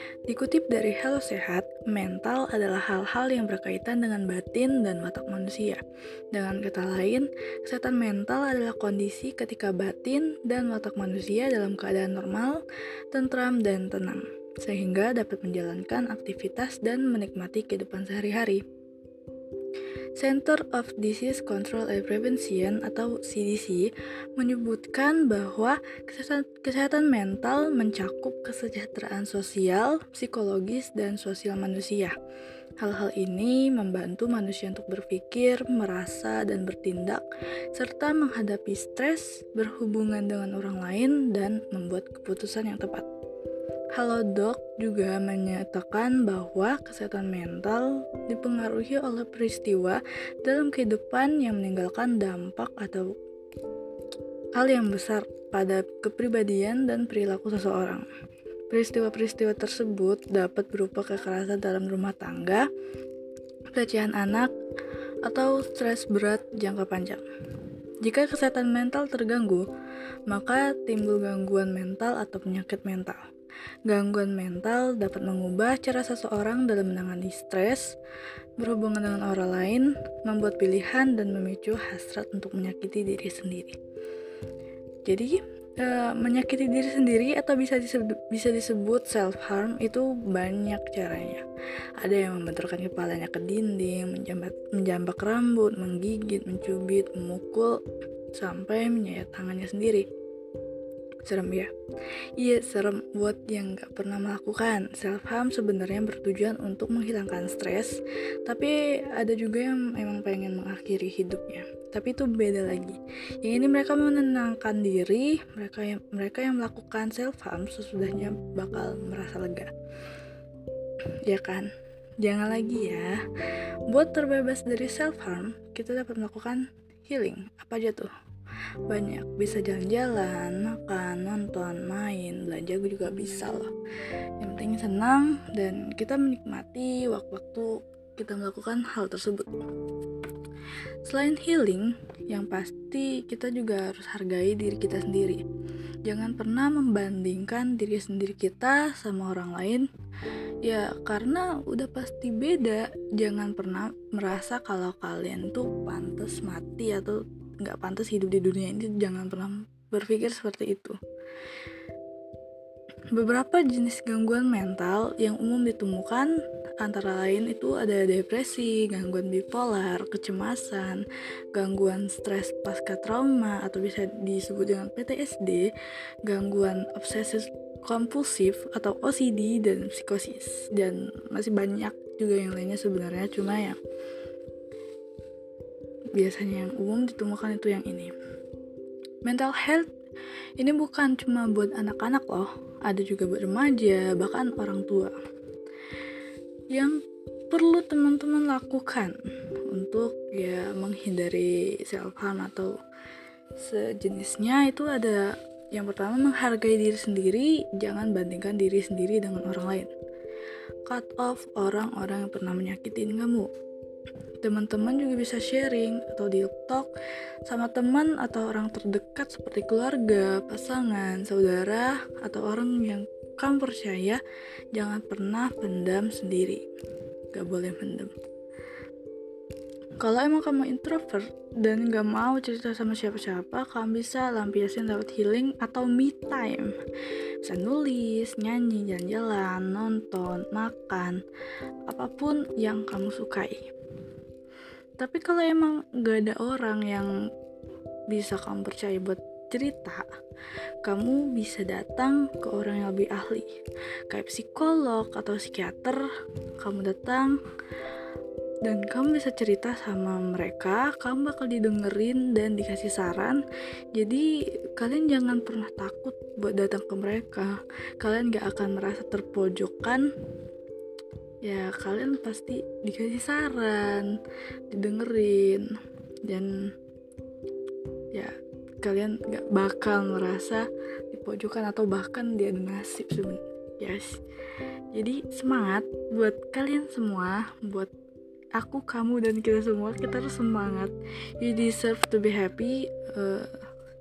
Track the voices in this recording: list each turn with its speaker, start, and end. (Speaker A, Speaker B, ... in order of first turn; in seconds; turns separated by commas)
Speaker A: 0.3-18.6, Speaker A: 20.2-32.2, Speaker A: 32.8-37.2, Speaker A: 37.8-43.1, Speaker A: 44.0-53.1, Speaker A: 54.6-58.1, Speaker A: 58.7-62.7, Speaker A: 63.7-64.5, Speaker A: 65.2-67.2, Speaker A: 68.0-69.7, Speaker A: 70.3-73.2, Speaker A: 73.9-77.9, Speaker A: 78.6-83.8, Speaker A: 85.0-91.5, Speaker A: 92.0-97.8, Speaker A: 98.3-100.0, Speaker A: 101.2-101.7, Speaker A: 102.4-119.7, Speaker A: 121.3-121.7, Speaker A: 122.2-123.2, Speaker A: 123.9-128.1, Speaker A: 128.9-133.7, Speaker A: 134.4-139.6, Speaker A: 141.1-145.4, Speaker A: 146.1-149.9, Speaker A: 150.6-161.0, Speaker A: 163.1-175.7, Speaker A: 176.2-183.8, Speaker A: 186.2-188.1, Speaker A: 189.2-189.9, Speaker A: 190.6-195.2, Speaker A: 196.7-197.0, Speaker A: 197.5-199.2, Speaker A: 199.7-202.8, Speaker A: 203.6-209.9, Speaker A: 210.9-213.5, Speaker A: 214.4-216.9, Speaker A: 217.5-224.2, Speaker A: 224.7-226.6, Speaker A: 227.3-228.1, Speaker A: 230.0-236.8, Speaker A: 237.4-241.2, Speaker A: 241.9-243.6, Speaker A: 245.0-247.1, Speaker A: 248.1-250.1, Speaker A: 250.8-253.5, Speaker A: 254.1-256.1, Speaker A: 256.6-257.4, Speaker A: 258.6-263.4, Speaker A: 263.9-270.1, Speaker A: 271.4-274.1, Speaker A: 274.7-275.7, Speaker A: 276.3-276.7, Speaker A: 278.1-284.2, Speaker A: 284.9-287.9, Speaker A: 288.6-293.5